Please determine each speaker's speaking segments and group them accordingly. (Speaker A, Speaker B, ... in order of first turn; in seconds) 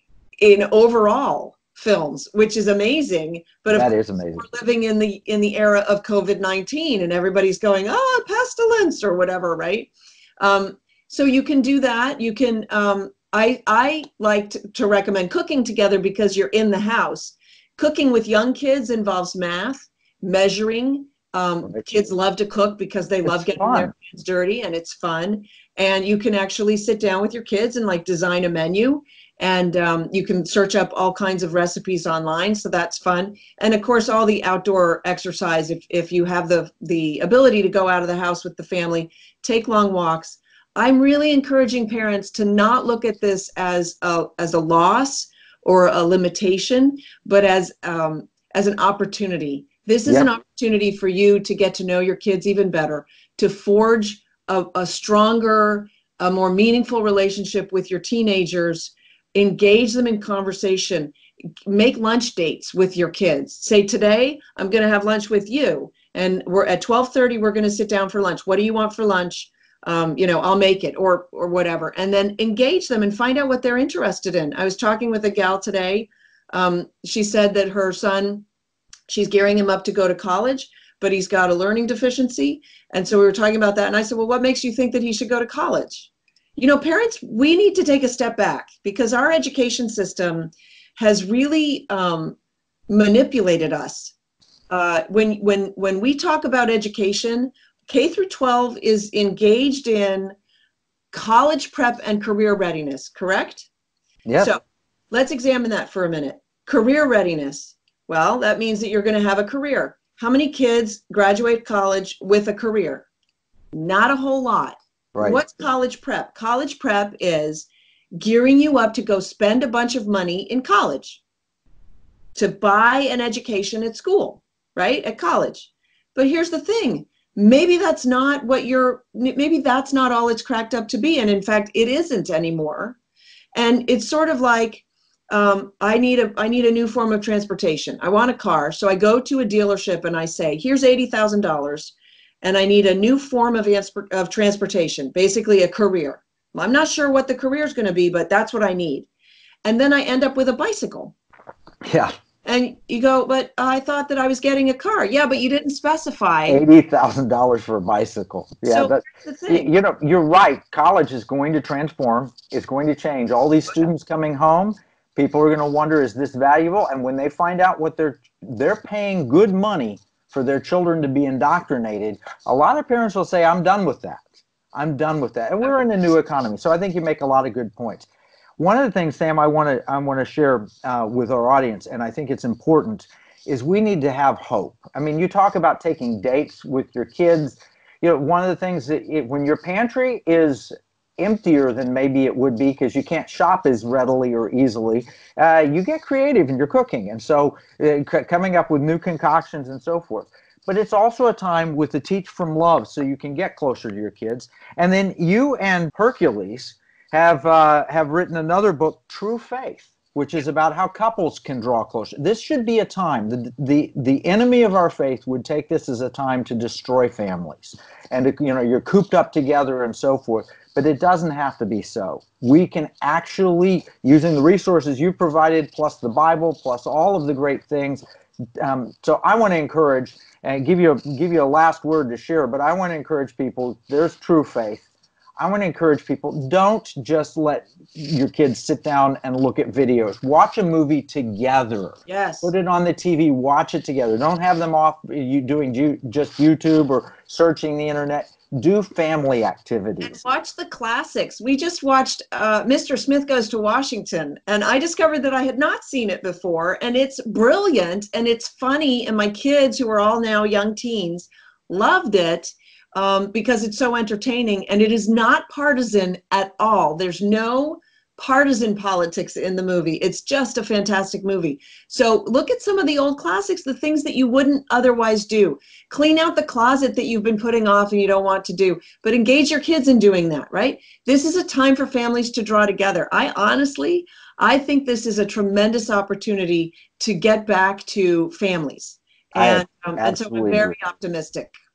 Speaker A: 0.4-61.1, 61.7-78.5, 79.1-92.4, 92.9-94.1, 94.7-100.3, 101.1-103.7, 104.4-113.1, 113.7-121.2, 122.4-133.0, 133.6-149.1, 149.6-151.1, 152.4-156.6, 158.7-159.7, 242.1-242.5, 250.0-291.6
Speaker B: 3.7-4.5, 23.2-23.9, 50.1-50.3, 104.2-104.5, 115.1-115.5, 151.8-152.1, 156.5-178.1, 178.6-228.0, 228.6-234.9, 235.4-250.2, 289.4-290.7